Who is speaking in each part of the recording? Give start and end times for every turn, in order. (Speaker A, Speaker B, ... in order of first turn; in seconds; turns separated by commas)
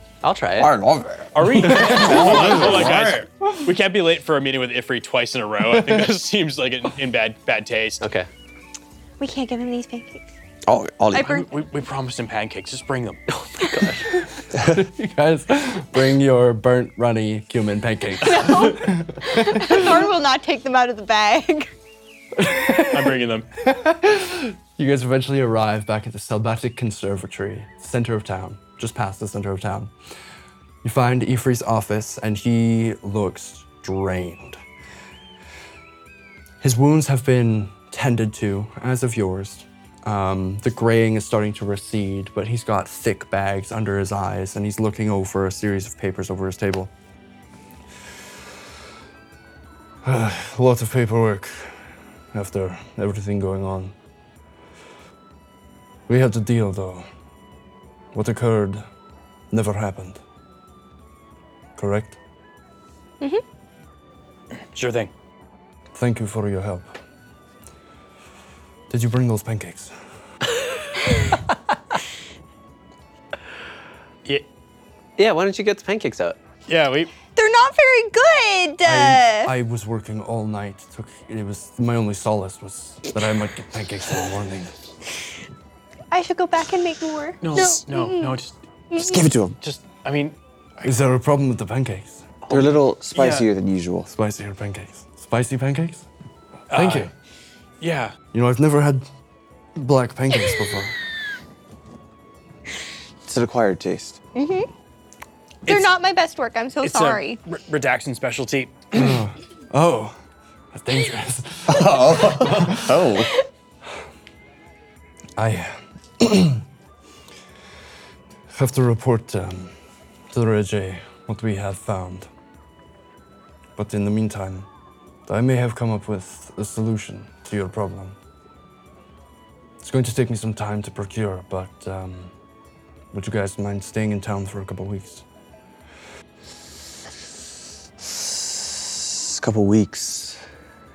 Speaker A: 0.2-0.7, Speaker B: 0.6-3.2, Speaker C: 1.4-8.0, Speaker D: 1.7-2.0, Speaker A: 8.0-8.3, Speaker E: 9.2-10.2, Speaker B: 10.7-11.4, Speaker E: 11.1-11.5, Speaker C: 11.2-13.2, Speaker A: 13.3-14.1, Speaker D: 14.6-20.1, Speaker E: 18.2-21.7, Speaker D: 22.4-29.9, Speaker C: 22.9-23.5, Speaker D: 30.8-34.6, Speaker D: 36.6-46.9, Speaker D: 50.0-53.9, Speaker D: 56.1-57.1, Speaker D: 58.1-58.8, Speaker D: 59.5-60.2, Speaker D: 61.8-62.2, Speaker C: 64.7-65.1, Speaker D: 65.9-67.0, Speaker D: 68.9-69.9, Speaker A: 75.2-76.4, Speaker C: 76.7-77.1, Speaker E: 77.4-79.5, Speaker D: 78.8-84.7, Speaker E: 86.1-88.4, Speaker C: 87.4-88.6, Speaker E: 88.9-89.2, Speaker B: 89.0-89.6, Speaker C: 89.6-91.0, Speaker D: 90.8-92.4, Speaker C: 92.5-93.5, Speaker B: 92.5-94.1, Speaker D: 94.1-96.1, Speaker C: 96.7-97.1, Speaker D: 96.7-97.1, Speaker C: 97.8-98.2, Speaker D: 98.3-99.0, Speaker D: 99.8-101.0, Speaker B: 103.3-104.2, Speaker E: 104.3-104.7, Speaker C: 105.7-105.9, Speaker E: 105.7-107.4, Speaker C: 106.8-109.2, Speaker D: 108.9-110.2, Speaker D: 110.7-113.1, Speaker B: 111.7-113.3, Speaker D: 115.4-116.6, Speaker D: 118.5-119.7, Speaker D: 120.3-122.3, Speaker D: 123.8-124.7, Speaker D: 125.3-128.2, Speaker D: 129.8-132.3, Speaker D: 133.1-135.2, Speaker B: 138.0-140.4